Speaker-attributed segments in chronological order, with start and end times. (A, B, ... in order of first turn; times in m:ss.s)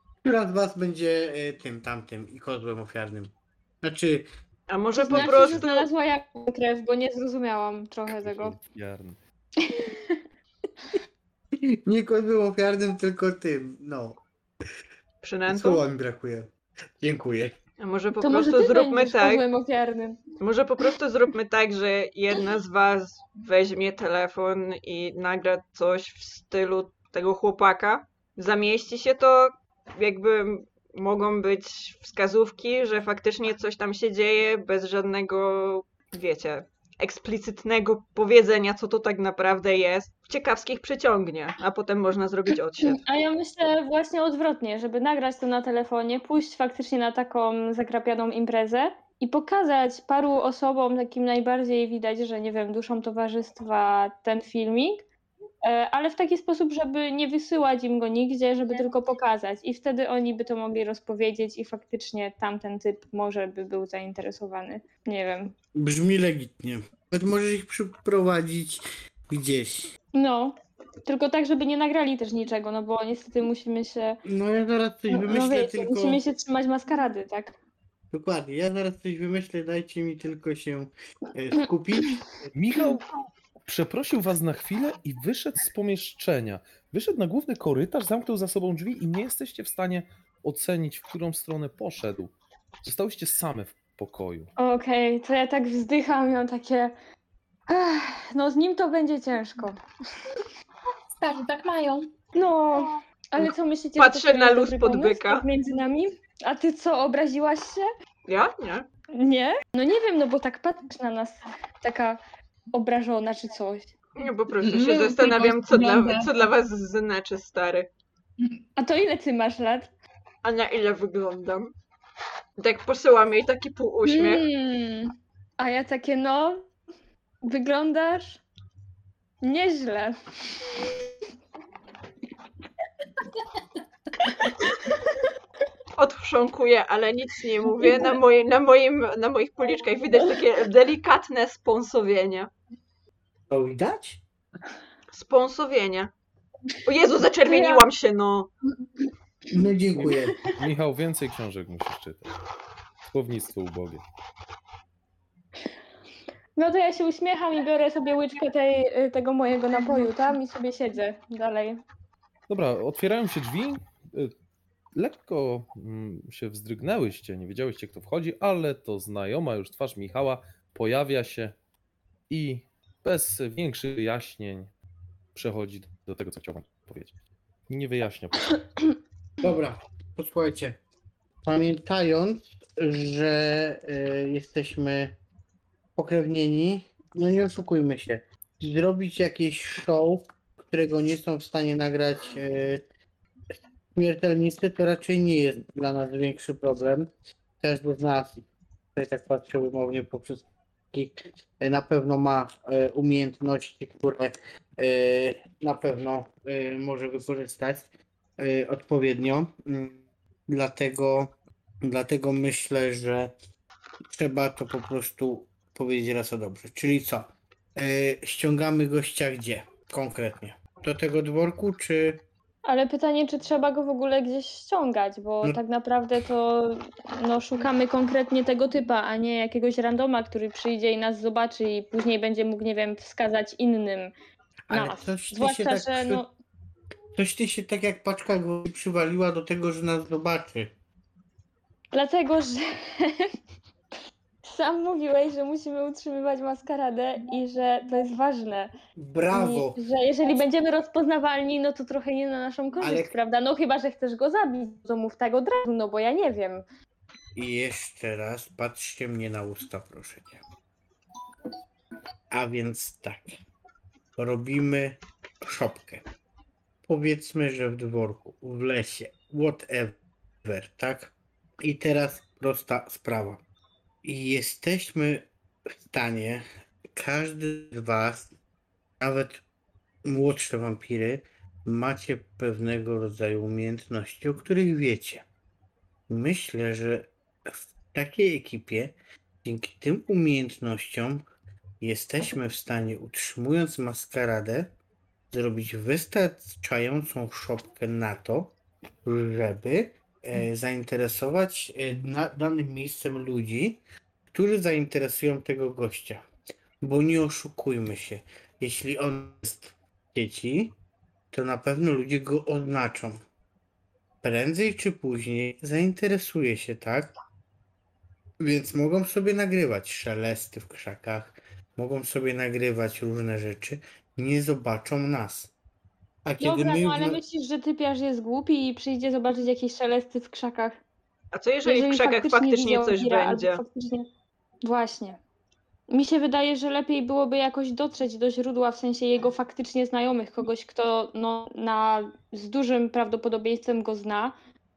0:00.2-0:04.3 A
0:04.7-0:05.9 B
0:04.9-0:08.6 C
0:08.1-0:09.2 D
0:09.6-0:10.2 C
0:11.6-0:14.2 A
0:15.2-0:15.8 B
0:15.5-0:17.6 A
0:17.8-0:19.4 B
0:18.2-0:20.2 C
0:20.4-0:43.0 B
0:42.8-0:55.0 C
0:55.6-1:05.5 C
1:05.7-1:09.9 A
1:10.1-1:10.5 C
1:11.0-1:14.2 C
1:14.3-1:16.2 A
1:15.1-1:17.5 C
1:18.1-1:22.2 A
1:21.6-1:22.2 C
1:22.5-1:34.5 D
1:34.6-1:36.9 C
1:37.7-1:40.2 C
1:41.1-1:42.1 E
1:42.3-1:47.8 C
1:44.0-1:45.4 B
1:48.3-1:48.9 B
1:49.2-1:52.2 C
1:52.7-1:53.9 C
1:54.2-1:57.9 B
1:54.6-1:56.5 E
1:58.8-1:59.9 C
2:00.4-2:01.7 B
2:02.6-2:04.4 B
2:04.0-2:06.7 C
2:07.4-2:08.4 C
2:09.4-2:10.9 C
2:16.0-2:22.5 B
2:23.5-2:24.2 A
2:25.1-2:26.1 B
2:26.8-2:28.5 B
2:27.4-2:27.8 C
2:29.5-2:30.3 A
2:30.6-2:32.3 D
2:33.0-2:34.0 D
2:36.6-2:41.8 C
2:42.5-2:44.3 D
2:45.0-2:51.5 D
2:52.3-2:54.7 D
2:55.3-2:57.1 D
2:57.7-2:58.6 D
2:59.4-3:00.8 A
3:01.4-3:05.2 A
3:06.0-3:12.8 A
3:13.9-3:17.1 A
3:17.6-3:33.3 A
3:34.1-3:42.2 A
3:42.6-3:54.1 C
3:54.7-3:56.2 A
3:54.7-3:56.3 C
3:57.1-4:00.7 A
4:01.9-4:03.3 C
4:04.4-4:08.7 C
4:09.0-4:09.8 A
4:09.3-4:16.6 C
4:12.8-4:13.1 A
4:17.4-4:20.4 A
4:22.3-4:23.4 A
4:24.2-4:26.0 A
4:26.9-4:33.4 A
4:34.0-4:35.3 A
4:35.9-4:36.4 A
4:36.9-4:38.3 A
4:39.0-4:39.4 A
4:40.0-4:45.2 A
4:46.1-4:51.2 A
4:51.8-4:54.7 A
4:55.3-4:58.5 A
4:59.0-5:03.8 A
5:04.3-5:06.2 A
5:06.8-5:10.8 A
5:11.3-5:13.2 A
5:14.2-5:17.1 A
5:18.4-5:25.5 A
5:26.2-5:27.2 A
5:26.4-5:30.8 C
5:31.3-5:33.6 B
5:31.6-5:34.0 C
5:34.6-5:35.2 C
5:35.9-5:44.3 C